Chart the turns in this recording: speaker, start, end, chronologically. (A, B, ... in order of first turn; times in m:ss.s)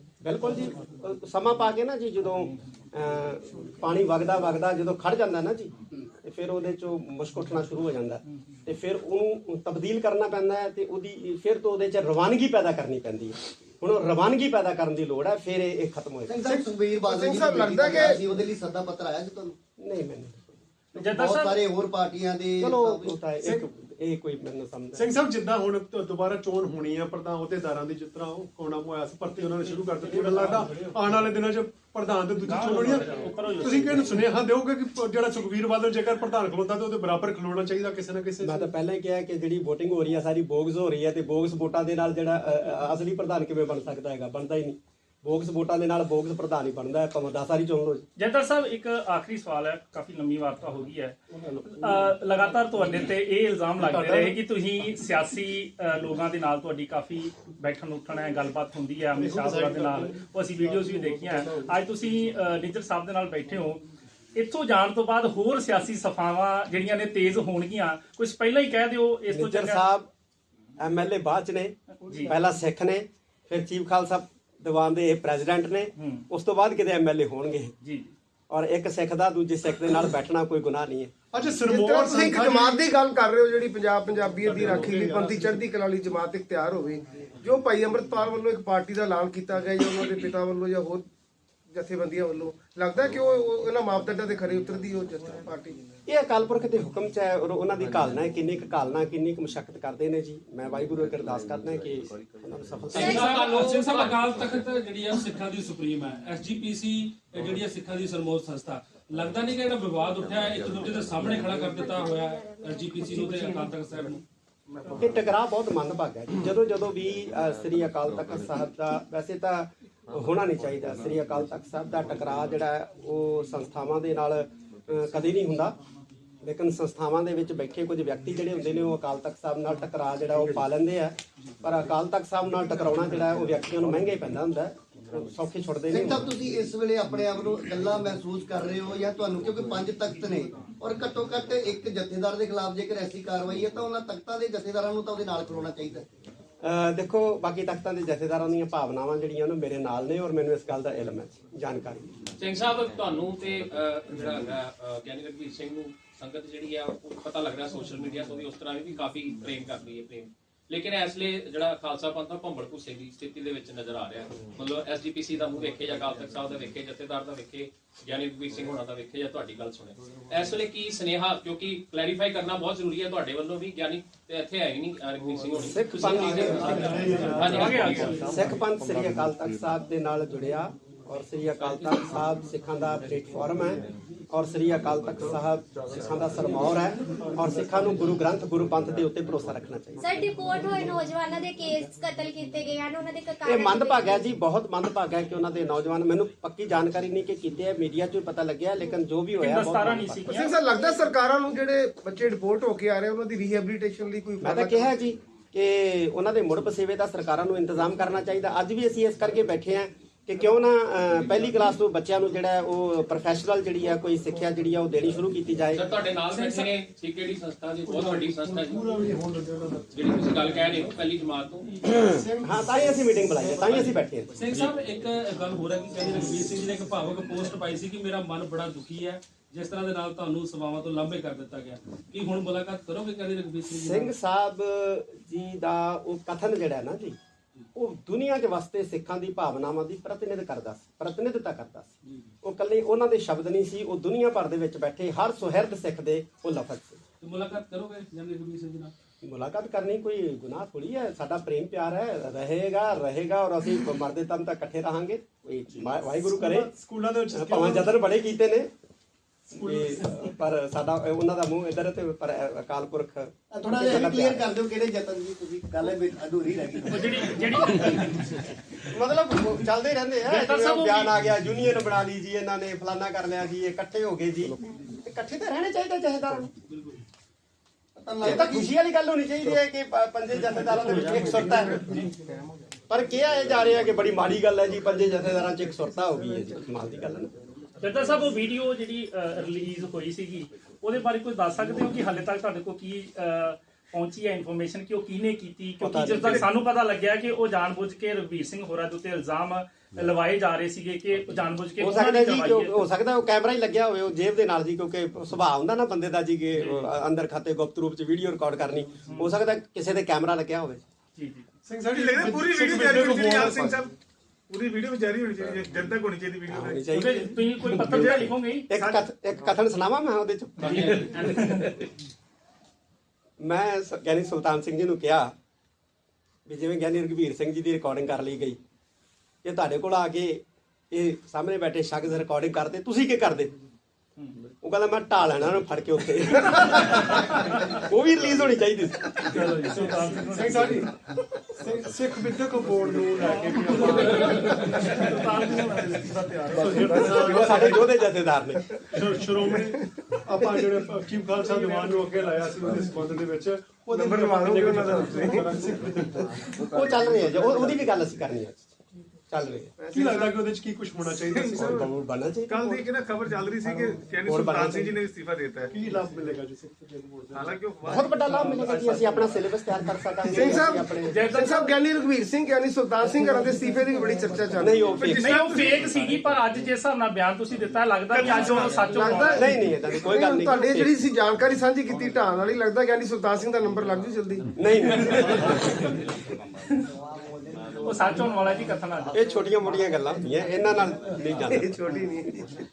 0:00.2-0:16.4 A
0:16.3-0:19.6 B
0:16.5-0:18.2 C
0:19.8-0:20.5 A
0:20.9-0:23.2 B
0:21.0-0:21.6 D
0:22.6-0:25.0 A
0:24.9-0:38.6 E
0:32.4-0:34.2 D
0:38.4-0:48.0 A
0:48.2-0:51.2 D
0:51.7-1:03.8 D
0:53.8-0:54.4 E
0:59.2-1:00.2 E
1:01.0-1:01.4 E
1:04.3-1:09.8 D
1:09.3-1:10.1 A
1:10.8-1:17.7 A
1:12.0-1:12.3 D
1:16.0-1:16.2 D
1:17.8-1:18.1 D
1:18.5-1:21.1 A
1:21.3-1:22.9 E
1:21.7-1:31.0 C
1:24.4-1:25.6 E
1:31.7-1:35.8 C
1:36.0-1:43.6 A
1:42.9-1:44.0 F
1:43.0-1:54.2 G
1:43.1-1:44.2 H
1:51.9-1:53.3 F
1:55.0-2:05.8 A
2:06.4-2:16.3 A
2:15.9-2:26.0 B
2:26.6-2:32.1 A
2:32.4-2:58.3 H
2:55.6-2:57.2 A
2:56.4-2:58.3 E
2:57.5-2:58.2 D
2:58.2-3:10.0 A
3:01.6-3:02.0 H
3:10.0-3:14.2 F
3:13.4-3:20.3 A
3:19.4-3:20.5 D
3:20.3-3:24.9 C
3:24.4-3:35.8 A
3:35.7-3:38.8 H
3:36.3-3:36.7 G
3:37.8-3:39.9 E
3:39.9-3:41.7 H
3:42.0-3:43.8 E
3:42.4-3:44.3 A
3:44.4-3:54.1 G
3:53.7-3:57.2 A
3:57.7-4:07.0 A
4:02.0-4:02.3 G
4:07.2-4:08.9 G
4:09.2-4:16.7 A
4:16.2-4:17.9 E
4:17.3-4:18.7 A
4:19.5-4:20.1 E
4:19.5-4:24.4 A
4:23.5-4:27.6 B
4:26.9-4:28.2 D
4:28.9-4:36.5 A
4:30.3-4:31.1 D
4:38.0-4:38.7 B
4:38.2-4:41.8 A
4:42.9-4:47.3 A
4:47.8-5:02.8 D
4:55.8-4:56.4 A
5:01.8-5:10.8 A
5:06.6-5:06.9 D
5:11.2-5:11.4 D
5:11.7-5:13.8 E
5:11.9-5:13.9 I
5:14.5-5:16.8 I
5:16.5-5:21.8 A
5:16.9-5:18.6 D
5:17.8-5:19.0 I
5:20.6-5:21.1 H
5:21.1-5:21.7 D
5:23.4-5:25.3 A
5:26.5-5:28.6 A
5:29.4-5:33.5 A
5:34.6-5:39.6 A
5:39.3-5:40.8 D
5:39.7-5:40.9 E
5:41.6-5:44.6 E
5:43.2-5:47.2 D
5:46.5-5:47.9 E
5:46.8-5:47.1 C
5:47.0-5:48.7 A
5:48.9-5:56.5 E
5:49.5-5:49.8 C
5:53.9-5:55.7 C
5:56.6-5:56.8 C
5:56.7-5:58.7 A
5:59.3-5:59.7 A
5:59.8-6:00.4 C
5:59.9-6:01.8 E
6:01.2-6:01.9 I
6:01.6-6:02.8 A
6:02.5-6:05.7 I
6:04.2-6:05.0 A
6:05.7-6:07.6 E
6:07.3-6:08.1 I
6:07.8-6:11.2 A
6:08.2-6:09.3 D
6:10.3-6:14.8 C
6:11.1-6:11.7 D
6:14.6-6:15.4 A
6:14.9-6:15.9 I
6:15.1-6:19.4 D
6:18.1-6:24.4 C
6:19.3-6:20.9 A
6:24.6-6:25.9 A
6:25.5-6:25.8 D
6:27.8-6:29.1 D
6:29.1-6:31.6 A
6:31.4-6:32.4 C